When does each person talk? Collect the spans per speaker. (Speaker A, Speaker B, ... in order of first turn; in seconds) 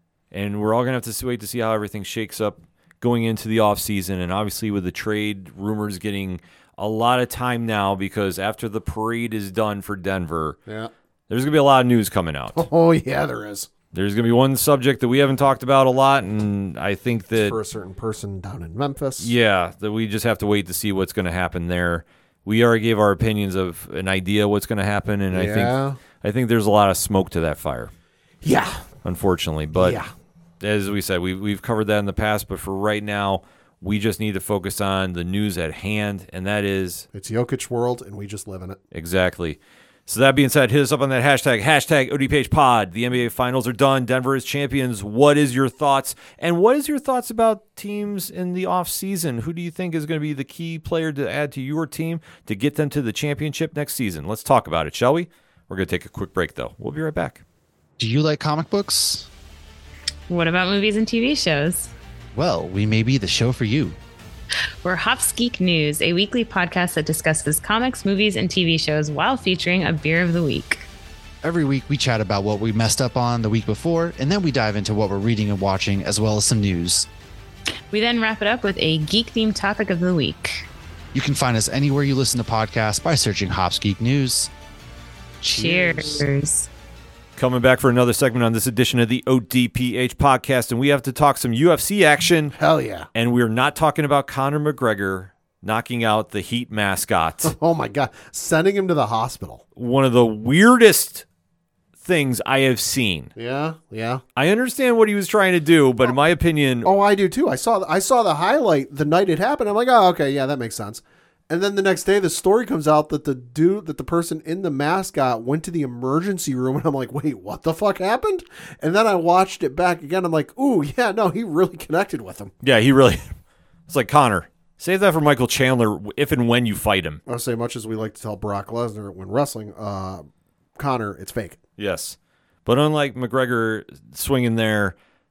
Speaker A: 0.3-10.6, 11.3-12.7, 13.9-17.6, 19.2-27.9, 29.0-30.0, 30.6-37.1, 38.9-57.4, 87.4-92.5, 93.1-97.5, 99.8-101.2, 102.0-103.3, 104.4-106.9, 122.6-123.4, 123.9-127.2, 131.8-135.0
Speaker B: 10.7-10.9, 12.5-13.7, 17.4-19.3, 25.3-26.0, 28.4-28.9, 29.8-30.1, 37.1-38.8, 85.5-86.2, 92.5-93.1, 97.4-99.6, 103.4-104.2, 106.8-122.5, 127.3-130.3, 130.8-131.6
Speaker C: 58.0-59.3, 62.3-64.0, 71.4-77.1, 81.1-84.5
Speaker D: 60.3-61.9, 64.8-70.8, 77.9-80.7, 85.4-86.7